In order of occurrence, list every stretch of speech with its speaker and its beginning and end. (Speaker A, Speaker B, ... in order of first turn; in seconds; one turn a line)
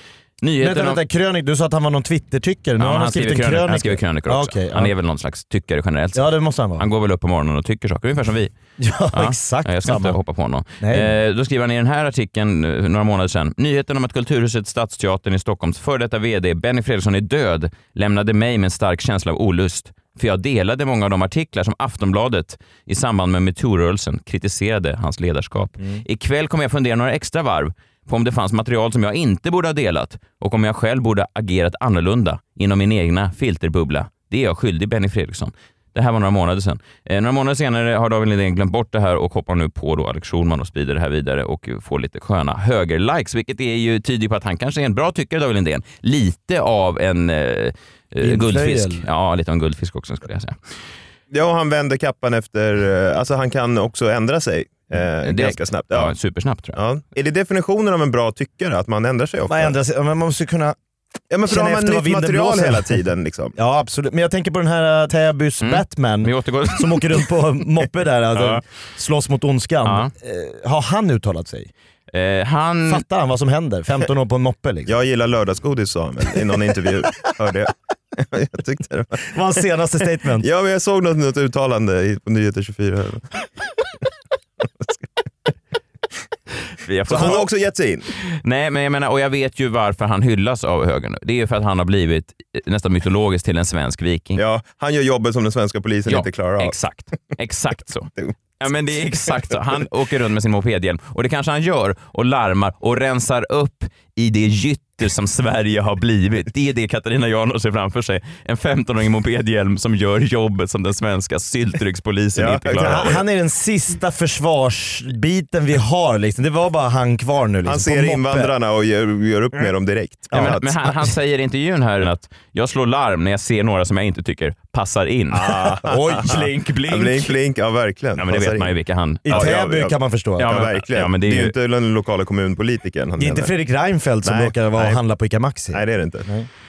Speaker A: 0.4-1.0
Speaker B: 0.6-4.9
Speaker A: 2.8-8.5
Speaker B: 6.2-6.8
Speaker B: 8.8-10.2
Speaker A: 9.1-50.6
Speaker B: 10.8-11.2
Speaker B: 48.2-49.0
Speaker C: 51.3-56.1
Speaker A: 55.2-56.8
Speaker C: 56.8-59.7
Speaker B: 59.5-60.8
Speaker C: 61.3-63.5
Speaker B: 61.5-63.0
Speaker B: 63.6-71.7
Speaker A: 65.6-67.3
Speaker A: 68.3-68.6
Speaker A: 69.8-70.1
Speaker A: 72.1-73.0
Speaker B: 72.9-75.0
Speaker C: 74.9-79.2
Speaker B: 79.3-80.5
Speaker C: 80.4-83.3
Speaker A: 86.8-87.5
Speaker C: 87.1-88.0
Speaker B: 87.1-87.4
Speaker A: 88.2-94.4
Speaker C: 94.3-96.8
Speaker A: 96.1-113.2
Speaker C: 112.3-113.2
Speaker B: 112.8-118.5
Speaker C: 117.7-120.8
Speaker B: 120.3-120.6
Speaker A: 120.3-127.3
Speaker C: 125.3-126.0
Speaker B: 125.8-126.5
Speaker C: 126.9-128.7
Speaker A: 128.2-129.7
Speaker B: 129.2-130.6
Speaker C: 129.3-133.5
Speaker A: 130.4-131.6
Speaker B: 133.2-136.5
Speaker C: 134.2-135.0
Speaker C: 135.7-136.3